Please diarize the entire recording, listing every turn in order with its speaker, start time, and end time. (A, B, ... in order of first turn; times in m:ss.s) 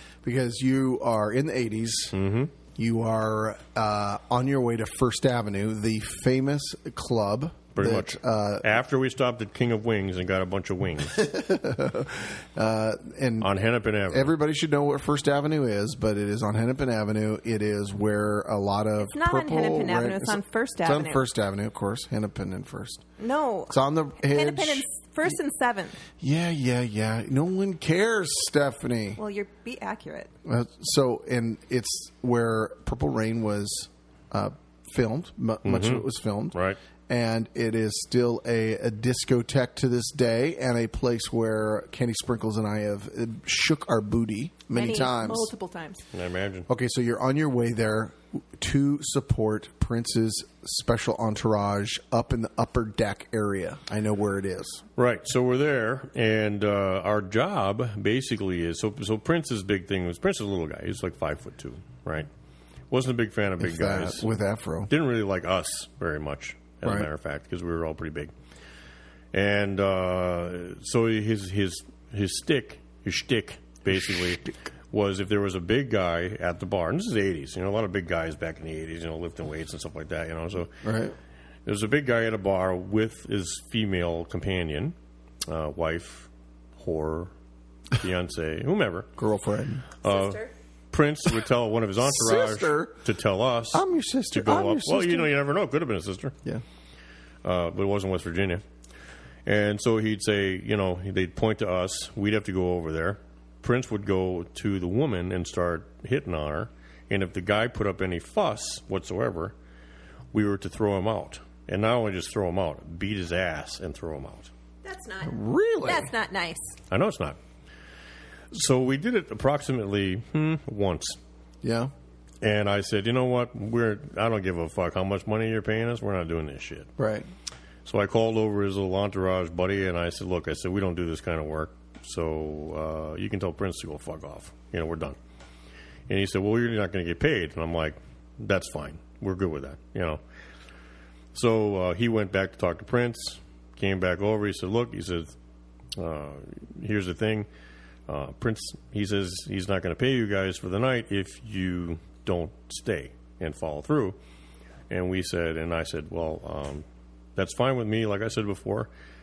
0:00.2-0:02.1 A
0:02.1-0:02.5 B
0:02.7-0:08.7 A
0:07.7-0:11.2 B
0:11.1-0:13.5 A
0:13.4-0:14.3 B
0:14.1-0:23.0 A
0:19.0-0:21.2 C
0:23.2-0:26.0 C
0:23.7-0:24.8 A
0:26.2-0:29.2 A
0:29.2-0:30.3 C
0:30.4-0:36.6 A
0:35.6-0:36.8 B
0:37.1-0:45.5 A
0:44.7-0:46.0 C
0:46.1-0:46.7 B
0:46.7-0:54.8 A
0:55.0-1:02.3 B
1:02.9-1:04.3 B
1:03.6-1:04.9 A
1:04.9-1:08.3 B
1:09.3-1:20.7 B
1:13.9-1:14.5 A
1:20.8-1:21.1 A
1:21.6-1:24.9 B
1:25.4-1:27.3 B
1:27.9-1:29.1 B
1:29.2-1:29.9 A
1:30.0-1:30.4 B
1:30.0-1:30.5 C
1:30.9-1:36.3 B
1:32.0-1:33.0 A
1:33.7-1:35.3 A
1:37.4-1:38.6 B
1:39.4-1:49.5 B
1:50.3-1:54.5 B
1:54.8-1:56.7 C
1:55.2-1:56.1 A
1:56.9-1:57.4 B
1:58.5-2:01.2 B
2:01.6-2:01.9 A
2:02.4-2:06.9 B
2:07.0-2:07.3 A
2:07.8-2:15.2 B
2:16.1-2:20.2 B
2:21.3-2:25.3 B
2:26.0-2:27.5 B
2:28.1-2:34.2 B
2:34.9-2:36.8 B
2:37.4-2:38.9 B